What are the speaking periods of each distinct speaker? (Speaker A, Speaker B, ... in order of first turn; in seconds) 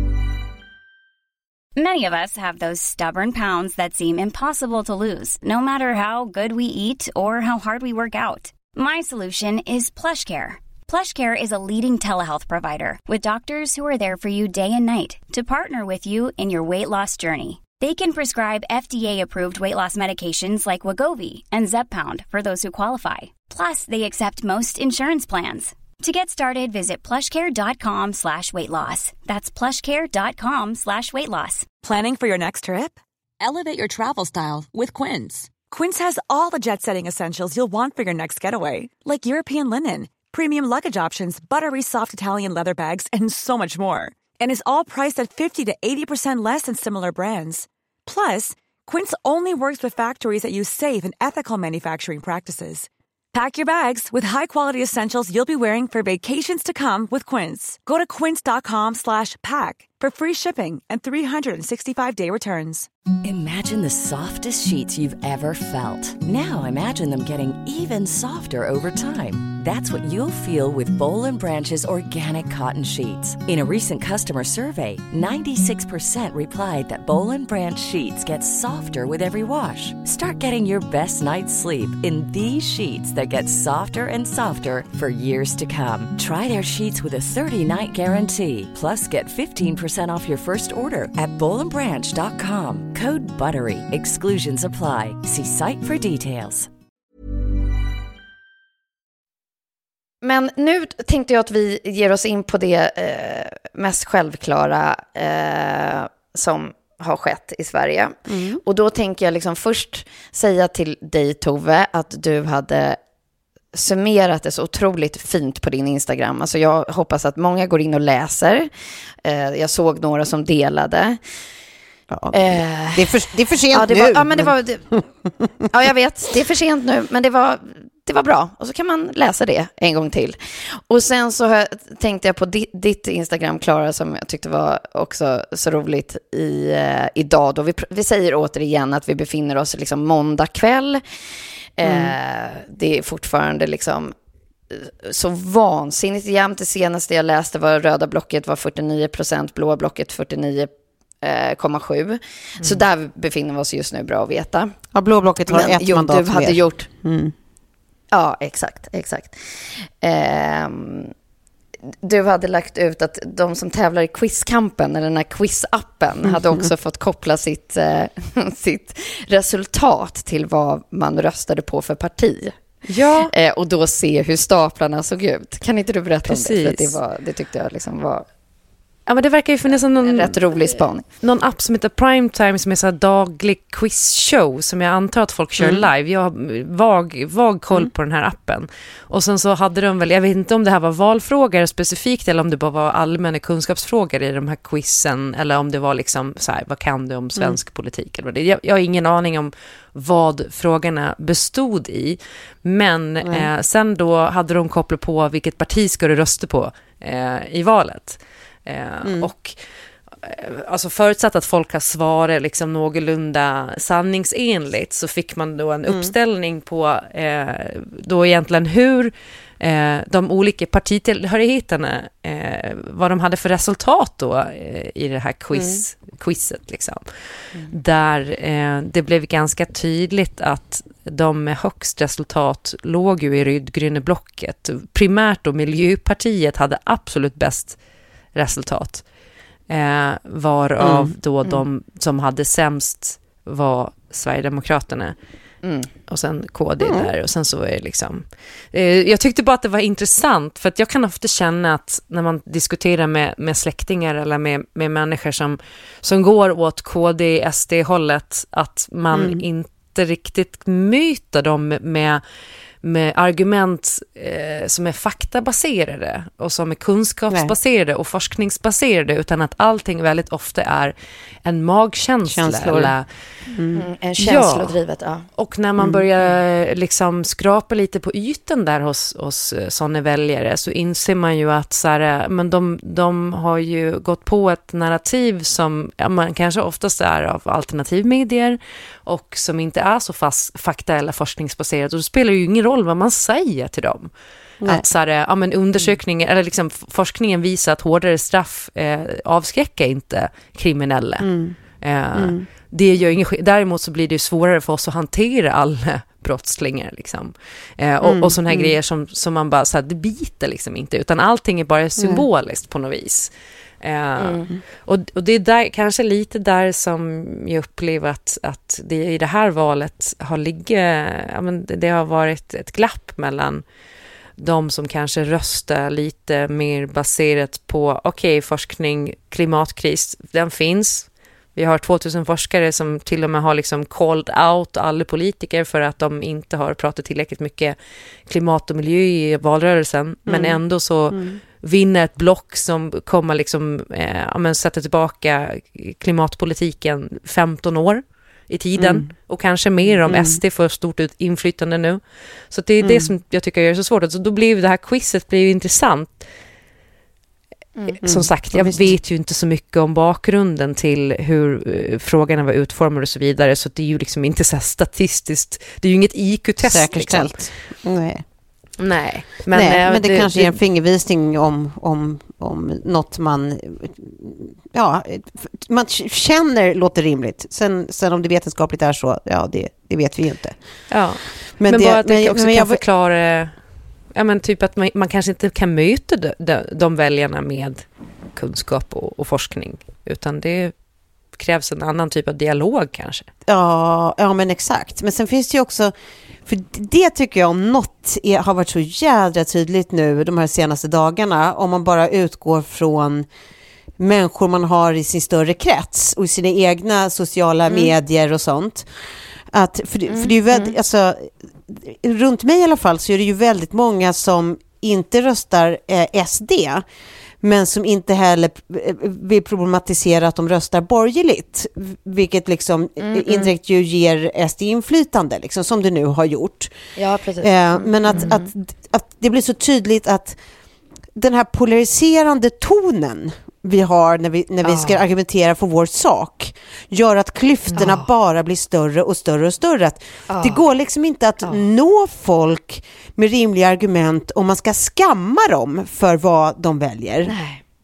Speaker A: 1.8-31.7
Speaker B: 31.8-62.9
Speaker C: 63.2-96.7
Speaker D: 100.2-113.0, 113.7-118.7, 119.2-121.2, 122.3-123.2, 123.7-124.9, 125.7-141.0, 141.8-144.1, 144.7-150.7, 151.2-154.8, 155.5-156.9, 158.1-159.4, 160.0-161.1, 162.0-172.5, 173.3-178.2, 180.0-181.0, 245.6-245.9, 273.8-275.3, 314.2-314.5, 410.1-410.7, 423.0-423.5, 427.0-428.5, 434.6-435.0, 437.8-438.1, 440.3-440.6, 447.3-447.6
Speaker E: 108.3-108.6, 122.1-125.0, 141.9-142.1, 154.9-157.3, 166.3-166.7, 185.6-185.9, 209.0-209.3, 225.5-225.8, 240.8-241.1, 246.8-247.1, 259.1-259.4, 272.3-272.9, 273.5-273.8, 275.8-276.0, 301.2-301.6, 302.1-302.4, 308.0-308.8, 312.0-312.3, 340.3-340.6, 341.1-341.4, 348.8-349.1, 350.1-350.4, 352.8-353.1, 358.0-359.0, 366.6-368.2, 369.5-380.6, 381.6-382.8, 393.5-395.9, 396.5-403.3, 404.0-408.9, 409.5-416.9, 417.4-426.7, 427.4-430.4, 431.1-447.3
Speaker F: 172.9-173.3, 176.3-177.0, 179.1-209.6, 210.2-227.0, 227.7-237.8, 238.3-239.0, 239.7-245.2, 246.1-262.2, 262.8-270.9, 271.4-273.1, 274.2-274.8, 275.4-294.1, 294.6-301.3, 301.8-313.3, 313.8-323.6, 324.4-337.8, 338.3-352.0, 352.5-356.2, 358.0-367.4, 368.8-370.6, 380.9-383.6, 384.1-390.7, 391.4-393.3